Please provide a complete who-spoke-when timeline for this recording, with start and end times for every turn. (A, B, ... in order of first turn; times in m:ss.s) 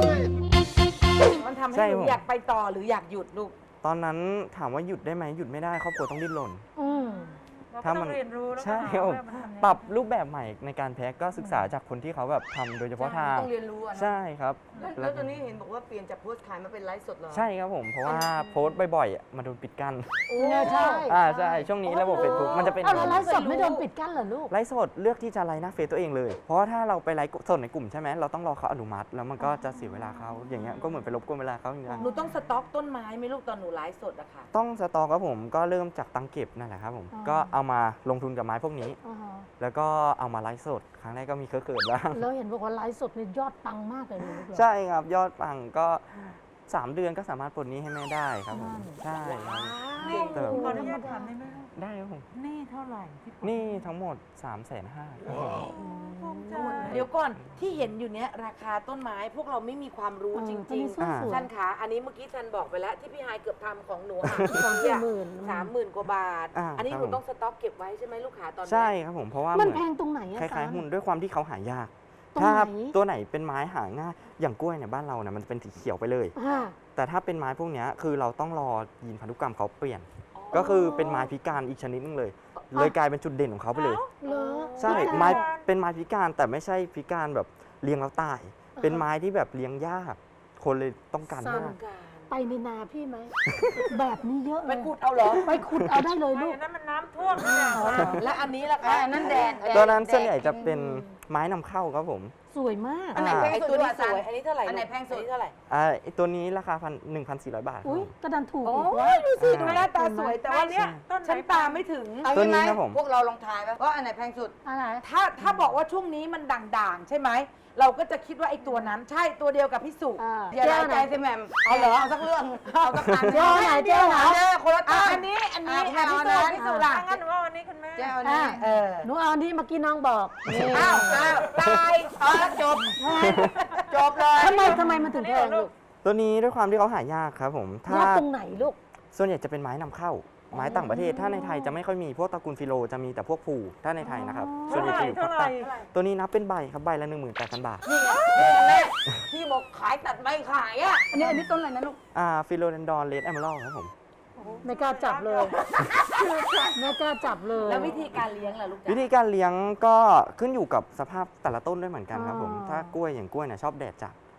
0:01.3-0:03.6 A
0:01.7-0:02.2 B
0:03.8-0:06.6 B
0:06.8-0:07.4 C
0:06.8-0:09.9 D
0:07.8-0:15.4 B
0:13.0-0:14.1 E
0:14.7-0:15.0 D
0:14.8-0:17.5 E
0:17.3-0:23.3 B
0:20.3-0:21.1 A
0:20.4-0:21.2 C
0:20.4-0:21.0 E
0:21.8-0:22.8 E
0:21.9-0:23.9 A
0:22.3-0:24.5 C
0:24.5-0:32.1 B
0:31.8-0:32.2 C
0:32.0-0:34.5 A
0:34.5-0:39.0 B
0:37.1-0:37.5 C
0:39.0-0:39.5 C
0:39.6-0:42.2 B
0:42.1-0:44.7 C
0:44.3-0:49.8 B
0:48.5-0:49.0 C
0:49.2-0:50.4 A
0:50.0-0:51.7 D
0:50.0-0:51.3 C
0:50.3-0:51.0 B
0:51.7-0:52.3 B
0:52.3-0:53.8 D
0:53.4-0:55.7 B
0:55.7-0:57.1 D
0:55.8-0:57.0 C
0:56.6-0:57.0 E
0:56.8-1:08.9 A
1:00.3-1:01.5 C
1:01.0-1:01.4 B
1:04.2-1:04.6 B
1:04.5-1:05.7 C
1:06.5-1:07.2 B
1:08.6-1:16.4 B
1:09.5-1:10.8 C
1:12.4-1:13.0 C
1:16.4-1:16.8 C
1:17.0-1:24.0 B
1:20.4-1:21.2 A
1:20.5-1:21.3 C
1:23.7-1:24.2 D
1:24.2-1:25.4 C
1:24.2-1:25.4 A
1:24.8-1:25.7 D
1:24.8-1:31.8 B
1:28.8-1:29.1 C
1:31.3-1:31.8 C
1:31.4-1:32.3 A
1:32.3-1:34.9 C
1:33.5-1:33.8 B
1:34.6-1:35.5 A
1:35.4-1:36.6 C
1:35.5-1:36.0 B
1:36.3-1:38.5 D
1:37.7-1:38.3 C
1:37.7-1:39.9 A
1:37.9-1:38.2 B
1:38.8-1:40.8 E
1:39.7-1:42.3 B
1:40.7-1:41.0 C
1:42.5-1:43.2 C
1:43.1-1:45.3 E
1:43.2-1:43.6 B
1:43.2-1:45.6 A
1:45.7-1:48.1 B
1:47.8-1:50.4 C
1:48.6-1:49.2 E
1:49.1-1:52.3 A
1:49.4-1:49.9 B
1:49.5-1:51.9 D
1:50.8-1:51.0 B
1:52.2-1:54.6 E
1:52.3-1:53.0 B
1:54.6-1:55.0 C
1:55.0-2:00.2 A
2:00.2-2:01.1 C
2:00.5-2:06.7 E
2:01.6-2:04.1 A
2:03.3-2:04.4 C
2:04.8-2:07.2 A
2:06.5-2:06.9 C
2:06.7-2:08.2 D
2:08.0-2:09.1 E
2:08.2-2:11.2 C
2:08.6-2:08.8 A
2:10.4-2:14.8 E
2:10.7-2:13.8 A
2:12.8-2:13.5 C
2:13.2-2:13.5 B
2:14.3-2:15.7 D
2:14.3-2:15.7 C
2:16.0-2:18.3 B
2:17.9-2:18.8 C
2:19.1-2:27.8 B
2:20.5-2:21.8 C
2:24.0-2:25.0 C
2:24.7-2:25.9 D
2:24.7-2:25.1 A
2:27.8-2:32.0 E
2:28.0-2:28.8 D
2:31.1-2:31.5 C
2:32.1-2:33.9 B
2:34.4-2:35.6 D
2:34.6-2:35.6 C
2:35.7-2:36.9 E
2:36.7-2:38.0 C
2:37.6-2:39.1 A
2:38.8-2:44.2 B
2:42.1-2:43.0 C